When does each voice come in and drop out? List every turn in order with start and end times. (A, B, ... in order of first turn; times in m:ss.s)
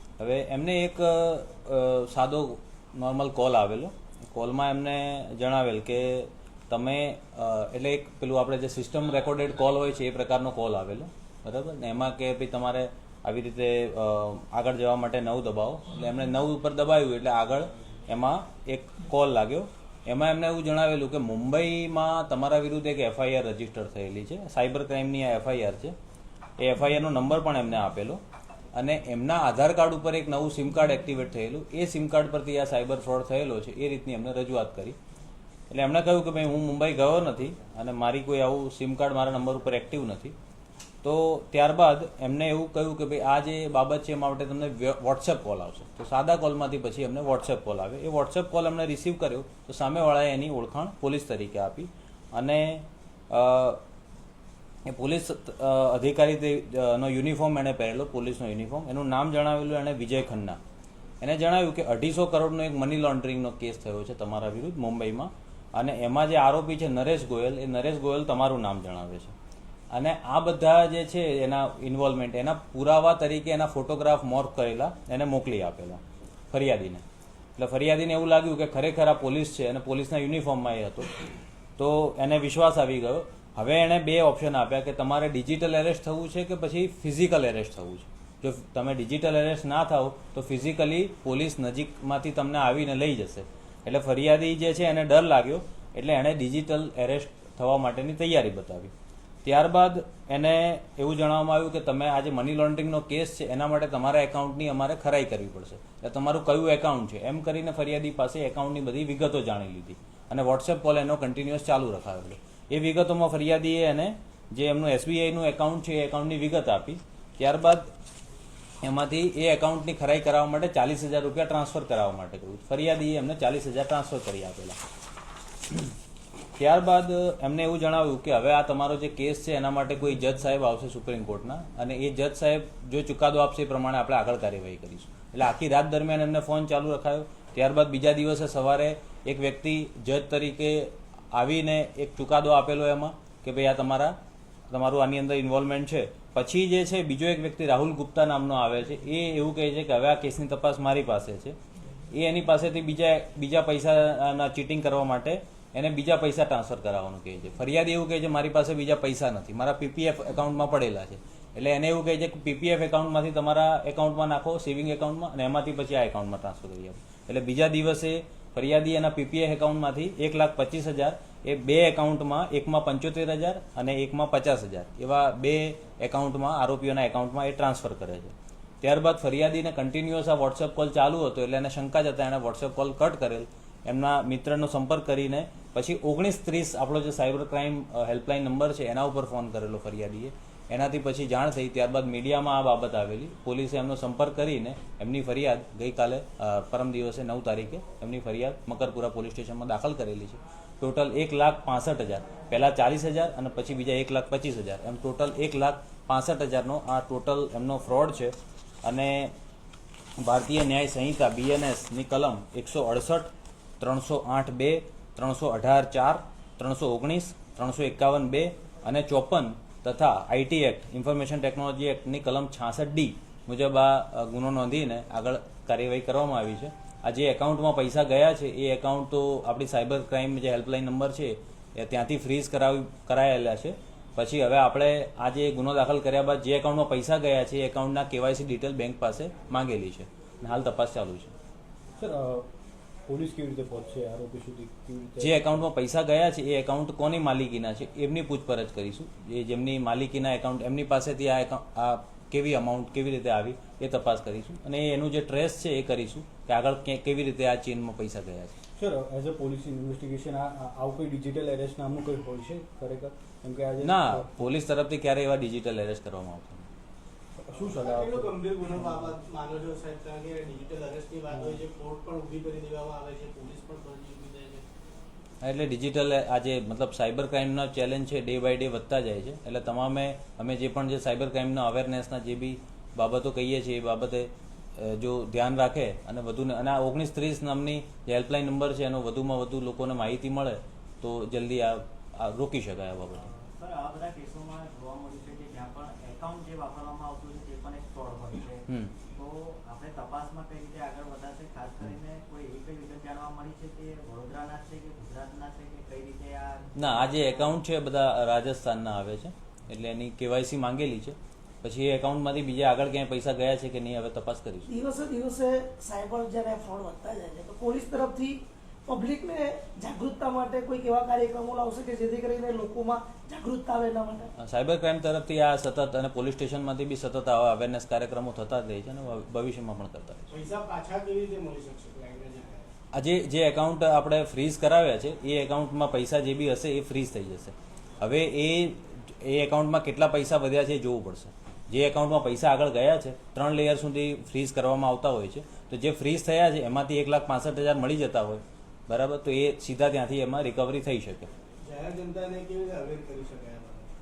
0:00.2-0:26.0 A
0:26.6-0:28.2 A
0:28.7-0:35.0 A
0:35.7-0:40.3 A
0:41.0-0:53.8 A
0:54.8-1:00.6 A
1:01.2-1:09.3 A
1:09.9-1:17.0 A
1:17.6-1:21.2 A
1:21.8-1:38.9 A
1:39.4-1:57.9 A
1:58.8-2:04.8 A
2:06.6-2:24.2 A
2:24.7-2:31.6 A
2:32.1-3:29.3 A
3:30.2-4:01.3 A
4:02.0-4:02.4 B
4:03.1-4:05.6 B
4:05.2-4:18.6 A
4:18.8-4:24.4 B
4:23.8-4:26.6 A
4:27.4-4:29.1 B
4:27.5-4:34.6 C
4:35.4-4:53.3 A
4:53.1-5:07.6 D
4:58.7-4:58.9 A
5:06.7-5:14.7 A
5:14.7-5:24.3 E
5:24.4-5:30.3 A
5:30.3-5:32.7 C
5:32.9-5:51.3 A
5:51.6-5:53.8 C